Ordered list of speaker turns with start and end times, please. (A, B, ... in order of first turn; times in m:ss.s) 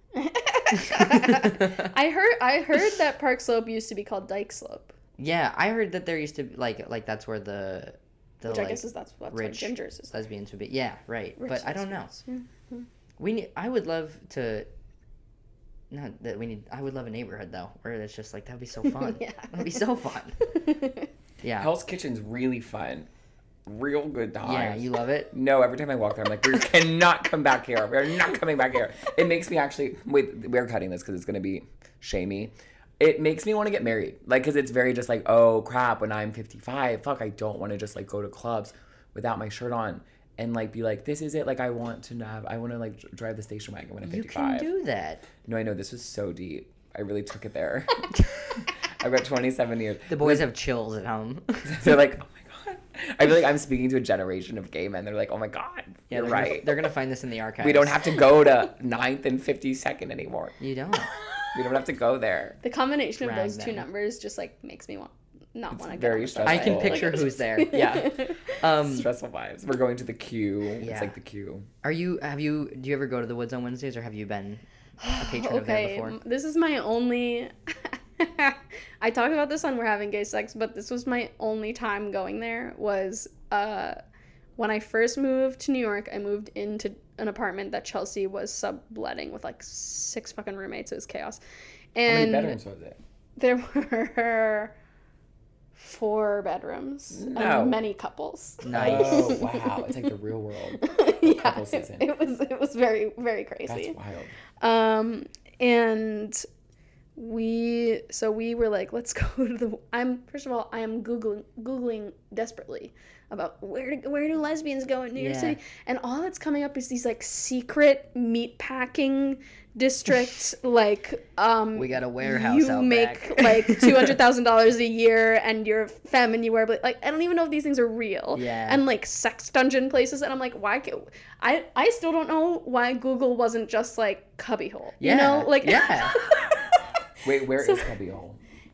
0:00.2-0:04.9 A
0:00.9-0:01.7 B
0:05.2-0:12.2 B
0:08.5-0:10.1 A
0:11.4-0:12.8 A
0:13.2-0:14.7 B
0:15.9-0:20.4 B
0:19.0-0:19.8 A
0:20.5-0:21.1 A
0:21.4-0:21.7 B
0:21.6-0:23.1 C
0:23.7-0:44.7 C
0:24.4-0:25.3 B
0:44.0-0:45.3 B
0:45.4-0:50.4 C
0:50.1-0:51.7 B
0:51.6-0:56.8 C
0:56.1-0:58.0 B
0:57.6-1:00.6 C
1:00.6-1:01.1 B
1:01.5-1:02.6 C
1:02.6-1:08.5 A
1:03.2-1:03.8 B
1:05.7-1:07.3 C
1:06.4-1:09.1 B
1:08.8-1:11.7 C
1:10.8-1:11.1 B
1:11.8-1:16.2 B
1:15.0-1:24.0 A
1:24.6-1:31.4 A
1:32.0-1:32.6 A
1:32.1-1:33.0 C
1:33.4-1:34.7 A
1:35.8-1:39.6 A
1:37.1-1:37.8 C
1:38.6-1:39.4 B
1:38.7-1:42.1 C
1:40.8-1:44.0 A
1:43.7-1:44.4 C
1:44.6-1:46.5 A
1:47.2-2:16.8 A
1:55.2-1:55.6 B
2:01.8-2:04.1 B
2:08.3-2:08.8 B
2:15.0-2:16.2 B
2:17.2-2:18.4 C
2:17.6-2:17.9 A